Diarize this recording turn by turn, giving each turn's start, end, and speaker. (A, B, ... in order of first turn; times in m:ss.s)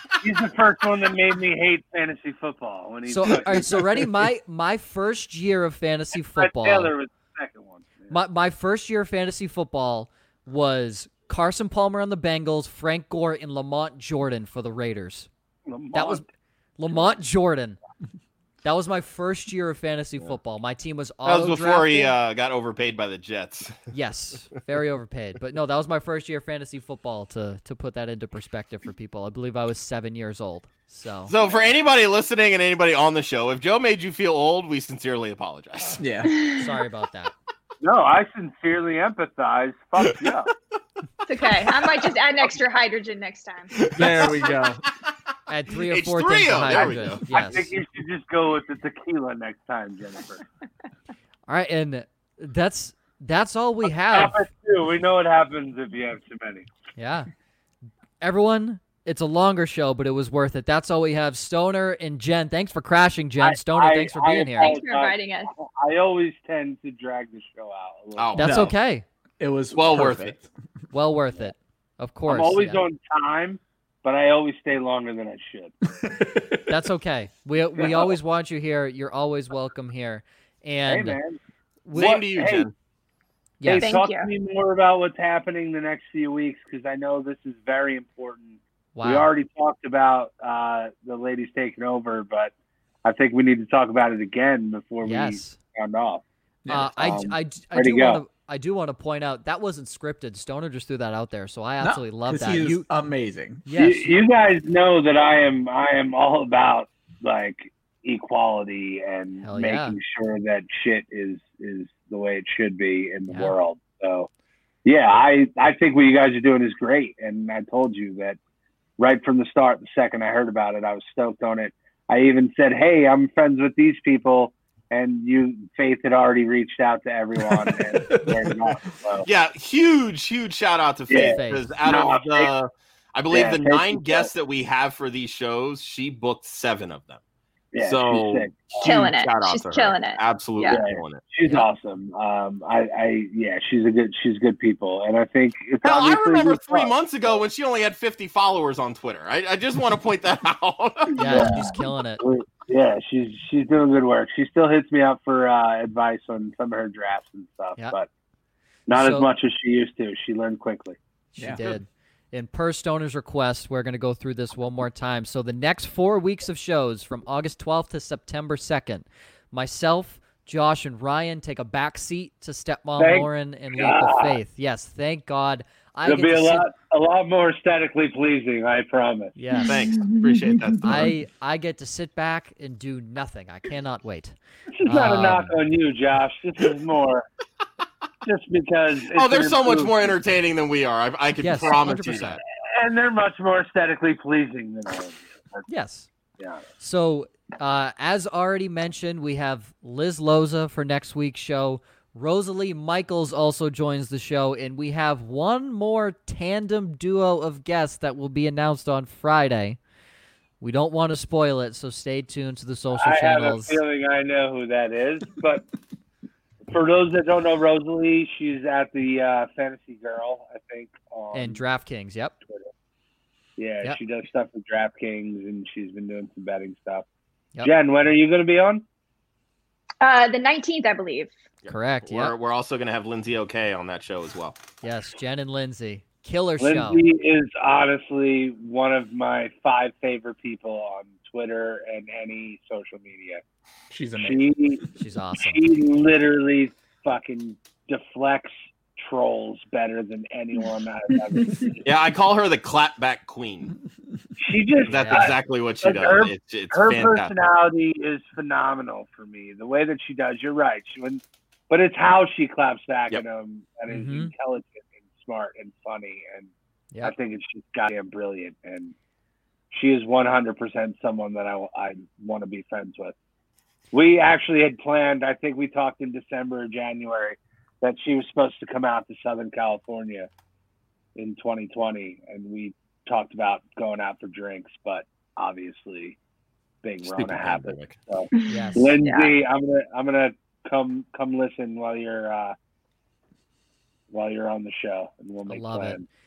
0:00.2-0:03.8 A
0:03.1-0:06.9 B
0:06.3-0:08.2 A
0:08.1-0:15.3 B
0:15.7-0:16.2 A
0:15.9-0:16.3 B
0:16.8-0:17.8 B
0:18.6-0:22.1 B
0:21.2-0:23.8 C
0:23.9-0:31.3 B
0:31.3-0:36.0 C
0:36.0-0:36.4 D
0:36.3-0:36.6 E
0:36.4-0:37.3 B
0:37.8-0:40.5 A
0:41.3-0:43.7 E
0:41.6-0:41.9 C
0:43.8-0:44.7 C
0:44.0-0:44.3 B
0:44.0-0:44.8 D
0:45.5-0:47.7 B
0:45.8-0:47.6 C
0:46.7-0:50.4 A
0:51.5-0:54.4 B
0:54.1-0:56.7 A
0:57.0-0:57.3 B
0:58.2-1:04.8 B
1:03.4-1:08.4 A
1:04.6-1:05.5 E
1:08.2-1:08.6 C
1:08.4-1:09.1 B
1:08.4-1:08.7 D
1:09.4-1:10.5 D
1:09.7-1:10.4 C
1:10.9-1:12.8 B
1:12.3-1:15.8 A
1:16.2-1:16.4 D
1:16.7-1:21.2 B
1:17.8-1:18.1 A
1:20.9-1:21.4 A
1:21.9-1:22.2 B
1:21.9-1:22.7 C
1:22.0-1:22.7 A
1:23.6-1:24.0 B
1:23.6-1:32.5 A
1:23.8-1:24.3 E
1:29.0-1:29.3 B
1:33.0-1:36.2 A
1:35.0-1:35.6 B
1:36.6-1:36.9 D
1:36.7-1:42.9 B
1:36.8-1:38.2 A
1:41.8-1:43.6 D
1:43.7-1:44.1 B
1:43.8-1:54.3 A
1:49.4-1:50.0 B
1:53.3-1:53.6 B
1:54.8-1:58.4 A
1:59.0-2:09.3 A
2:08.1-2:08.8 D
2:09.2-2:17.2 C
2:11.1-2:12.5 A
2:11.3-2:11.7 B
2:13.3-2:14.3 A
2:17.7-2:19.0 A
2:17.8-2:21.2 C
2:18.8-2:20.8 E
2:20.7-2:27.4 A
2:25.8-2:31.4 C
2:31.2-2:32.2 B
2:31.2-2:38.1 A
2:31.3-2:31.6 E
2:38.9-2:41.0 A
2:38.9-2:39.3 B
2:41.3-2:56.6 B
2:53.0-2:54.4 A
2:56.0-2:59.4 A
2:59.4-2:59.9 B
2:59.6-3:00.8 E
2:59.6-3:01.1 C
3:00.8-3:05.6 B
3:04.8-3:07.3 A
3:08.2-3:10.0 A
3:09.1-3:12.4 C
3:11.4-3:12.4 B
3:12.7-3:15.7 A
3:15.7-3:16.1 B
3:16.4-3:16.6 A
3:16.8-3:29.8 B
3:30.6-3:33.8 B
3:33.0-3:35.7 A
3:36.7-3:41.6 A
3:41.3-3:42.3 B
3:42.4-3:42.7 A
3:43.6-3:47.1 A
3:47.6-3:48.8 A
3:50.0-3:51.3 E
3:51.6-3:54.6 C
3:51.7-3:52.3 B
3:54.8-3:57.0 B
3:56.6-4:03.4 A
4:03.9-4:04.4 D
4:04.2-4:04.9 A
4:05.0-4:05.6 B
4:05.4-4:11.8 A
4:11.8-4:13.8 C
4:14.4-4:26.5 A
4:14.9-4:17.3 C
4:14.9-4:15.3 B
4:23.9-4:24.3 B
4:27.0-4:28.9 A
4:29.7-4:33.2 A
4:33.9-4:40.3 A
4:41.2-4:46.2 A
4:46.8-4:52.6 A
4:47.0-4:48.0 C
4:48.3-4:49.3 E
4:48.5-4:48.9 B
4:54.1-4:56.0 A
4:55.5-4:56.0 B